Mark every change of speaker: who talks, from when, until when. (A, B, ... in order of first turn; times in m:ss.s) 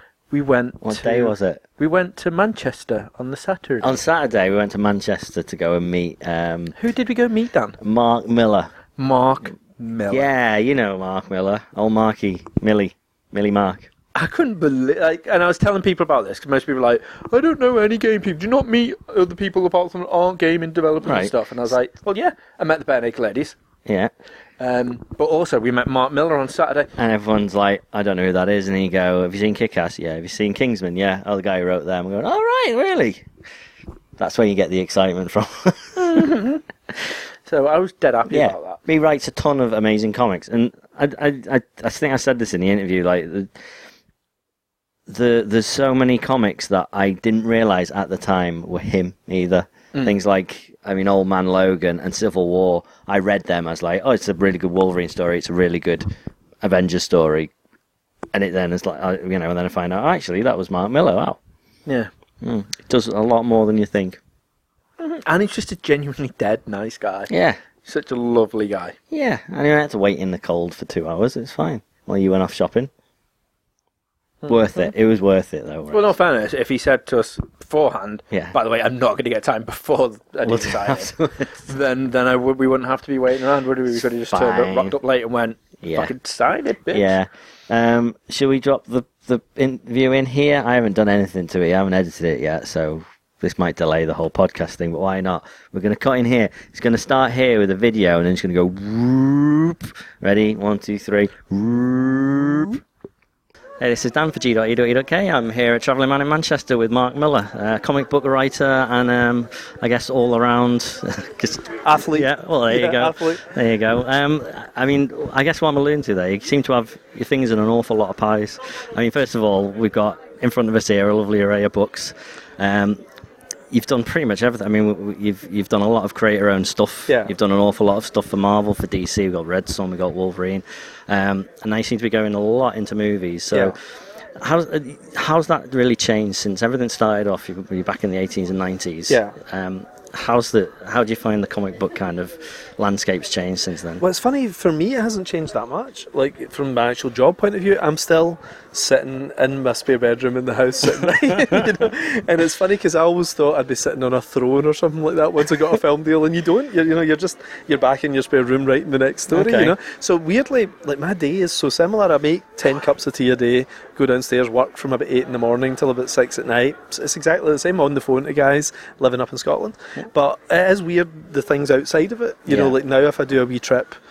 0:00.3-0:04.0 A
0:00.8-0:01.6 B
0:03.8-0:06.8 B
0:06.8-0:07.8 A
0:07.8-0:08.8 B
0:09.0-0:10.3 A
0:10.1-0:13.9 B
0:14.2-0:23.6 A
0:21.0-0:21.4 B
0:23.9-0:24.1 B
0:24.6-0:26.9 A
0:27.0-0:33.3 B
0:34.2-0:36.3 B
0:36.0-0:36.6 A
0:37.5-0:38.8 A
0:38.3-0:43.5 B
0:45.1-0:56.1 B
0:56.6-0:57.5 B
0:58.3-1:01.4 B
1:02.4-1:04.2 B
1:05.0-1:07.3 A
1:07.3-1:07.6 B
1:07.8-1:09.0 A
1:09.1-1:12.9 B
1:14.5-1:16.1 B
1:15.9-1:27.2 A
1:20.4-1:21.5 B
1:24.3-1:25.0 B
1:25.8-1:26.1 B
1:26.9-1:42.8 B
1:43.8-2:03.0 B
1:51.8-1:53.4 C
2:03.7-2:13.8 B
2:14.4-2:24.0 B
2:19.1-2:19.4 C
2:24.0-2:54.0 C
2:31.4-2:31.6 B
2:39.3-2:39.8 B
2:52.5-2:52.8 B